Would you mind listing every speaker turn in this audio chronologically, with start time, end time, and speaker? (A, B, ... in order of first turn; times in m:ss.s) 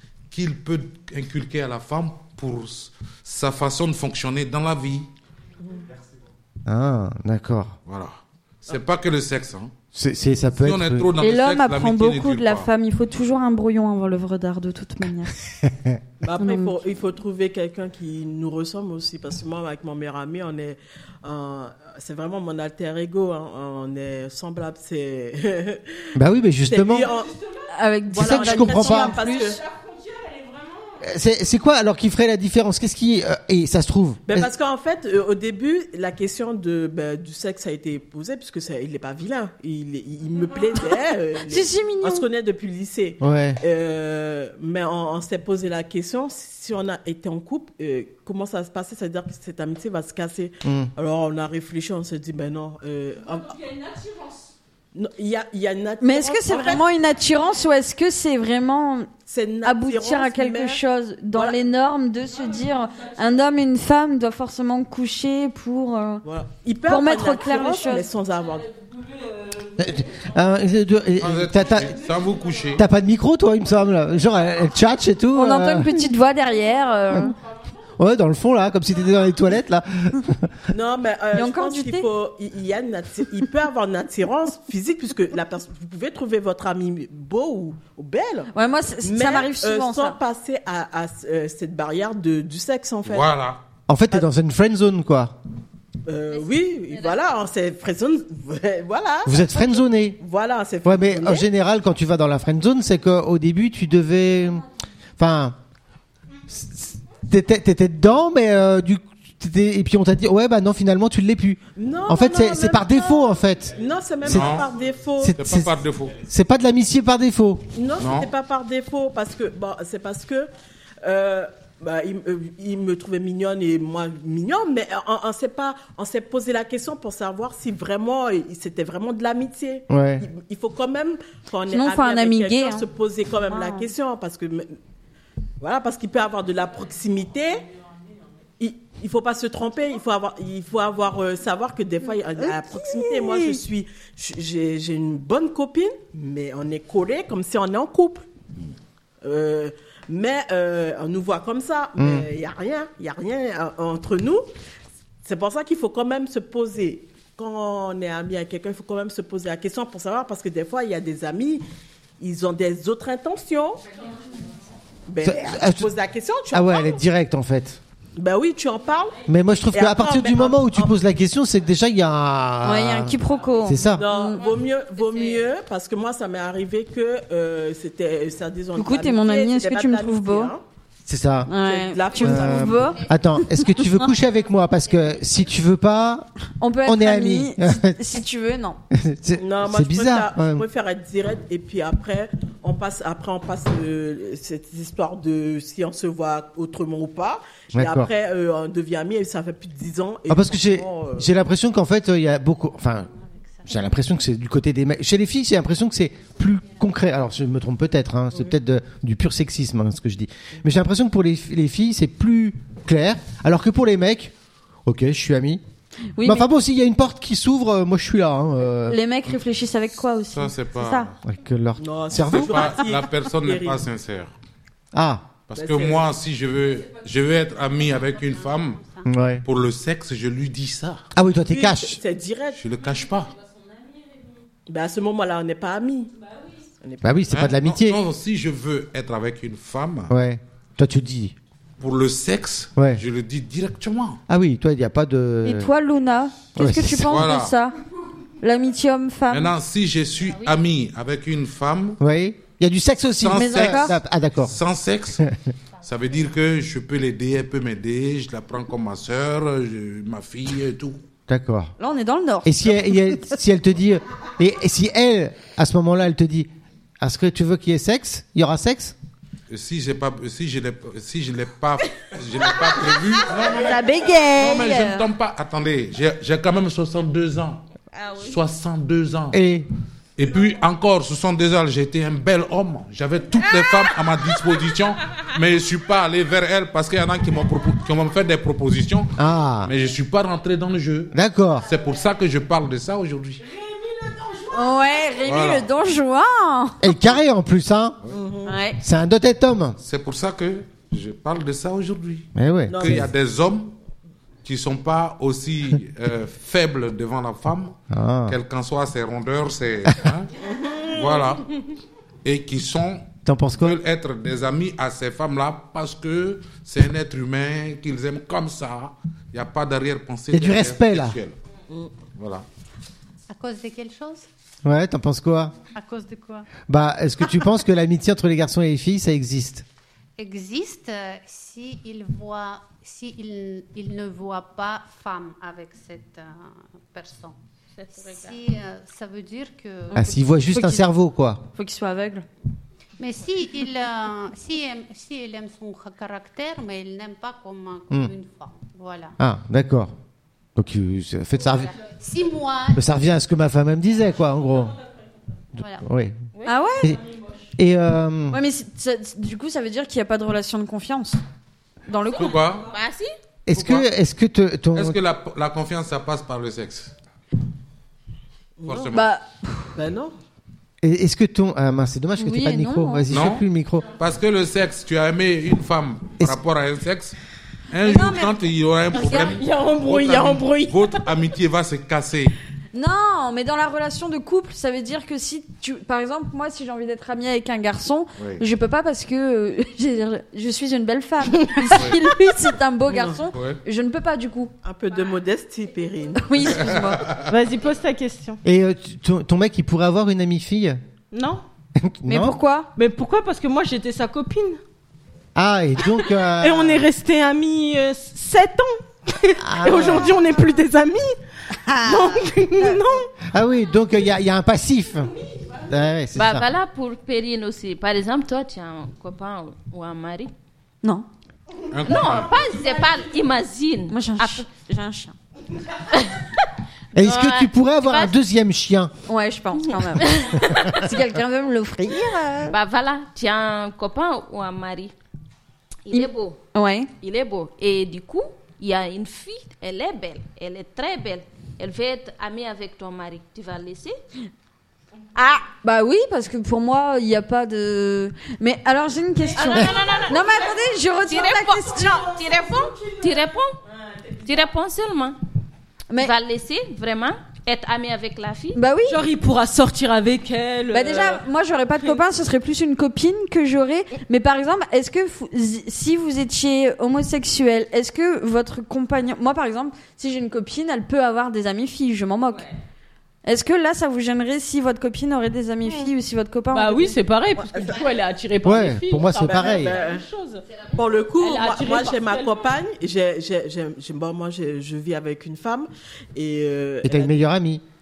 0:00.3-0:05.1 A
0:06.7-0:07.8 B
0:07.9-0:09.7 A
0:09.9-0:11.1 B
0:10.6-0:12.7 A
0:11.2-0:15.4 C
0:15.6-0:16.0 B
0:16.2-0:26.1 D
0:16.4-0:16.8 C
0:26.2-0:27.1 B
0:26.7-0:27.4 D
0:27.7-0:29.6 C
0:28.1-0:29.6 D
0:28.2-0:29.2 B
0:31.0-0:34.5 B
0:34.3-0:53.9 D
0:41.5-0:42.3 C
0:43.2-0:43.6 B
0:50.6-0:50.9 B
0:54.9-0:56.8 D
0:56.0-0:59.1 C
0:59.3-1:00.8 D
0:59.6-1:06.2 C
1:06.2-1:08.8 D
1:06.9-1:08.1 C
1:09.8-1:12.0 B
1:11.2-1:12.9 A
1:12.8-1:15.9 B
1:15.3-1:17.4 C
1:18.0-1:20.6 B
1:20.7-1:28.5 D
1:21.3-1:22.1 C
1:28.5-1:30.2 C
1:29.0-1:33.3 D
1:33.0-1:33.6 A
1:33.9-1:35.4 B
1:36.1-1:41.5 D
1:36.3-1:37.2 E
1:39.2-1:40.2 B
1:40.8-1:44.6 B
1:45.2-1:45.6 B
1:46.5-1:54.5 B
1:51.8-1:55.4 D
1:54.3-1:54.7 A
1:55.2-1:57.7 B
1:55.3-1:56.2 A
1:57.7-2:00.5 D
1:58.0-1:58.3 A
2:01.0-2:14.8 D
2:09.9-2:10.3 B
2:11.7-2:12.8 C
2:13.5-2:13.9 C
2:15.6-2:17.6 D
2:18.6-2:28.3 D
2:22.5-2:23.6 B
2:29.2-2:34.4 D
2:32.0-2:32.3 B
2:35.2-2:41.6 D
2:42.2-2:43.9 D
2:45.1-2:47.0 D
2:45.2-2:45.9 B
2:46.5-2:47.8 B
2:48.2-2:51.0 D
2:49.2-2:54.0 B
2:52.6-2:54.4 C
2:53.9-3:00.6 D
2:54.2-2:55.5 E
2:58.8-3:00.5 C
3:01.0-3:01.5 B
3:01.5-3:04.1 C
3:01.5-3:03.0 D
3:02.2-3:06.3 B
3:06.6-3:08.8 C
3:06.8-3:08.0 B
3:08.9-3:10.6 B
3:09.4-3:21.3 D
3:17.7-3:18.1 B
3:20.3-3:23.1 B
3:23.2-3:23.7 F
3:23.7-3:34.3 B
3:34.9-3:35.6 B
3:36.2-3:36.5 C
3:36.2-3:39.0 B
3:38.9-3:41.1 C
3:40.3-3:41.2 A
3:41.2-3:42.7 B
3:41.8-3:43.8 D
3:42.2-3:44.3 A
3:44.9-3:45.3 B
3:45.5-3:48.8 A
3:45.5-3:46.1 D
3:48.1-3:49.1 F
3:49.0-3:49.4 B
3:49.4-3:51.1 A
3:51.2-3:52.0 B
3:51.5-3:52.6 D
3:52.6-3:53.3 A
3:54.7-3:56.1 D
3:56.8-3:57.2 D
3:57.0-3:58.0 B
3:57.3-4:00.1 A
4:00.1-4:01.4 B
4:01.8-4:04.2 A
4:02.8-4:03.0 B
4:04.3-4:05.7 B
4:05.4-4:07.8 C
4:06.6-4:07.2 B
4:07.1-4:07.5 A
4:08.4-4:09.5 C
4:09.3-4:12.0 A
4:10.3-4:10.6 F
4:12.0-4:14.6 B
4:13.2-4:15.3 A
4:13.3-4:14.0 C
4:15.8-4:21.0 A
4:21.3-4:21.7 B
4:21.8-4:23.3 C
4:22.4-4:26.5 B
4:27.0-4:29.0 B
4:29.5-4:37.6 A
4:33.4-4:35.1 C
4:37.9-4:38.4 E
4:38.2-4:39.4 A
4:39.3-4:39.7 B
4:40.2-4:49.1 A
4:49.2-4:49.7 B
4:49.7-4:51.1 A
4:51.1-4:51.7 B
4:51.7-4:53.5 A
4:53.7-4:54.4 D
4:54.5-4:57.0 C
4:55.3-4:55.7 A
4:56.8-4:58.0 B
4:58.1-4:58.6 D
4:58.4-4:58.8 C
4:58.8-4:59.8 B
4:59.8-5:03.7 A
5:02.4-5:03.1 B
5:02.7-5:03.1 D
5:04.4-5:10.3 A
5:07.9-5:08.4 B
5:10.4-5:11.4 D
5:10.9-5:11.5 A
5:12.2-5:21.4 A
5:13.2-5:13.8 B
5:20.3-5:21.2 B
5:22.0-5:22.5 A
5:23.3-5:24.3 F
5:24.6-5:25.5 B
5:25.7-5:26.5 F
5:26.7-5:29.6 B
5:30.2-5:37.4 F
5:37.8-5:38.4 E
5:37.9-5:40.0 F
5:39.9-5:40.9 C
5:40.0-5:41.4 B
5:41.5-5:42.2 C
5:43.0-5:49.2 F
5:49.2-5:49.9 B
5:50.6-5:51.7 B
5:51.8-5:52.8 F
5:52.7-5:54.8 B
5:55.6-5:56.2 B
5:55.6-5:55.9 F
5:56.4-5:57.0 C
5:57.6-5:58.4 B
5:58.3-6:01.2 C
6:01.9-6:02.4 C
6:02.1-6:02.7 A
6:02.7-6:03.1 E
6:03.5-6:05.0 B
6:03.6-6:03.9 A
6:04.7-6:06.9 A
6:08.6-6:09.0 D
6:08.6-6:09.1 A
6:08.9-6:09.8 C
6:09.8-6:10.2 D
6:10.8-6:13.9 B
6:12.2-6:13.1 C
6:13.1-6:17.2 A
6:17.7-6:22.4 A
6:17.9-6:18.3 C
6:18.9-6:21.1 G
6:22.7-6:34.5 C
6:31.7-6:32.0 A
6:33.3-6:33.6 A
6:34.6-6:36.8 D
6:36.2-6:37.2 C
6:36.7-6:37.3 A
6:37.3-6:38.4 G
6:38.4-6:40.8 B
6:41.1-6:41.4 G
6:41.8-6:42.4 B
6:42.1-6:42.7 C
6:42.8-6:44.6 G
6:45.4-6:46.9 B
6:45.9-6:51.2 G
6:49.4-6:50.2 B
6:51.8-6:53.1 G
6:53.3-6:55.1 B
6:55.7-6:56.5 B
6:56.2-7:00.3 E
7:01.7-7:02.3 A
7:01.8-7:04.5 E
7:03.9-7:05.2 C
7:05.9-7:06.4 E
7:07.0-7:08.2 E
7:07.0-7:08.9 B
7:09.1-7:12.2 C
7:10.0-7:10.5 E
7:11.8-7:12.5 B
7:12.5-7:14.9 E
7:15.8-7:16.4 E
7:15.9-7:16.9 C
7:17.0-7:24.0 E
7:25.2-7:25.5 E
7:25.5-7:32.1 C
7:29.3-7:30.5 E
7:31.1-7:33.6 E
7:32.2-7:33.1 G
7:33.9-7:34.2 G
7:34.2-7:35.2 E
7:36.0-7:38.6 E
7:38.6-7:39.0 C
7:38.9-7:41.2 G
7:40.7-7:52.5 C
7:53.2-7:57.0 C
7:56.5-8:00.4 G
7:57.4-7:57.8 D
7:58.4-7:59.7 B
7:59.1-8:00.1 D
8:00.8-8:07.2 D
8:01.2-8:02.5 G
8:06.8-8:07.6 B